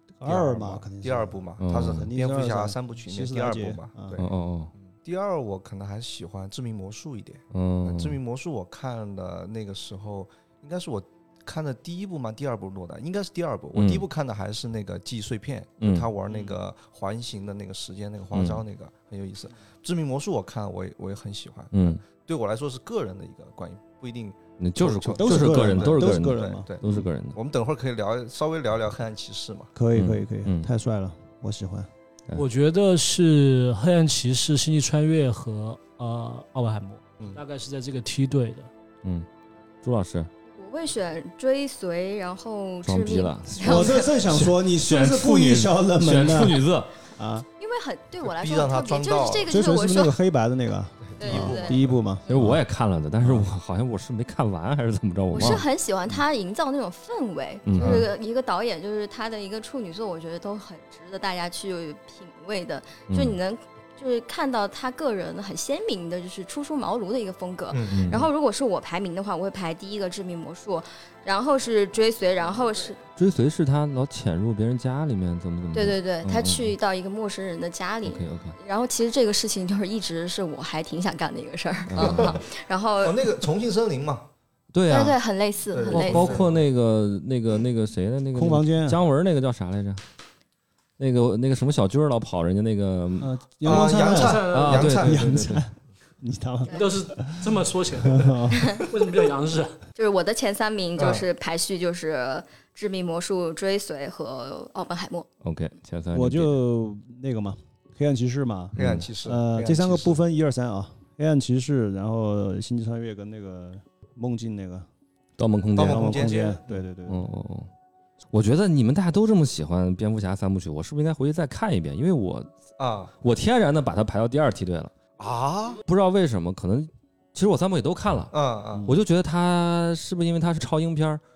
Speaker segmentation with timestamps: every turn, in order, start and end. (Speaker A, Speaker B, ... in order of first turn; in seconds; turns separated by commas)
Speaker A: 0.2-4.2, Speaker B: 0.2-29.7, Speaker C: 1.6-2.1, Speaker C: 4.2-4.7, Speaker C: 7.5-8.2, Speaker C: 13.8-14.1, Speaker C: 15.8-16.1, Speaker C: 18.3-18.6, Speaker C: 21.7-22.0, Speaker C: 24.6-27.4, Speaker A: 25.2-26.7, Speaker A: 29.8-31.9, Speaker C: 29.9-30.7, Speaker D: 32.3-38.7, Speaker C: 39.8-40.3, Speaker E: 40.5-44.1, Speaker C: 42.9-46.9, Speaker A: 43.6-46.6, Speaker A: 47.2-47.5, Speaker E: 47.6-50.2, Speaker B: 48.2-49.6, Speaker A: 49.5-52.5, Speaker B: 51.0-52.0, Speaker E: 51.2-52.6, Speaker C: 52.3-55.7, Speaker A: 53.2-53.5, Speaker E: 55.3-73.0, Speaker C: 57.7-58.1, Speaker B: 57.8-58.1, Speaker C: 63.1-63.4, Speaker B: 67.7-68.2, Speaker C: 67.9-68.3, Speaker C: 73.2-76.7, Speaker E: 75.7-83.3, Speaker C: 78.0-78.6, Speaker C: 81.9-82.4, Speaker B: 82.0-82.3, Speaker B: 83.0-84.3, Speaker C: 84.7-85.2, Speaker E: 84.9-86.4, Speaker B: 85.7-86.6, Speaker C: 85.9-90.0, Speaker A: 88.3-89.0, Speaker C: 91.0-93.3, Speaker A: 93.2-98.8, Speaker B: 93.7-95.6, Speaker D: 94.1-94.8, Speaker C: 94.5-95.6, Speaker E: 96.7-96.9, Speaker D: 96.8-99.8, Speaker E: 98.6-98.8, Speaker E: 100.0-105.3, Speaker B: 101.0-101.2, Speaker C: 105.4-106.6, Speaker A: 106.1-114.9, Speaker B: 108.8-110.2, Speaker C: 108.8-109.1, Speaker C: 115.4-116.2, Speaker A: 115.8-117.3, Speaker B: 115.8-116.8, Speaker C: 117.1-117.7, Speaker C: 118.3-122.5, Speaker B: 122.8-123.1, Speaker C: 123.2-124.9, Speaker B: 125.2-125.8, Speaker C: 125.9-128.3, Speaker B: 128.3-128.9, Speaker C: 128.9-131.2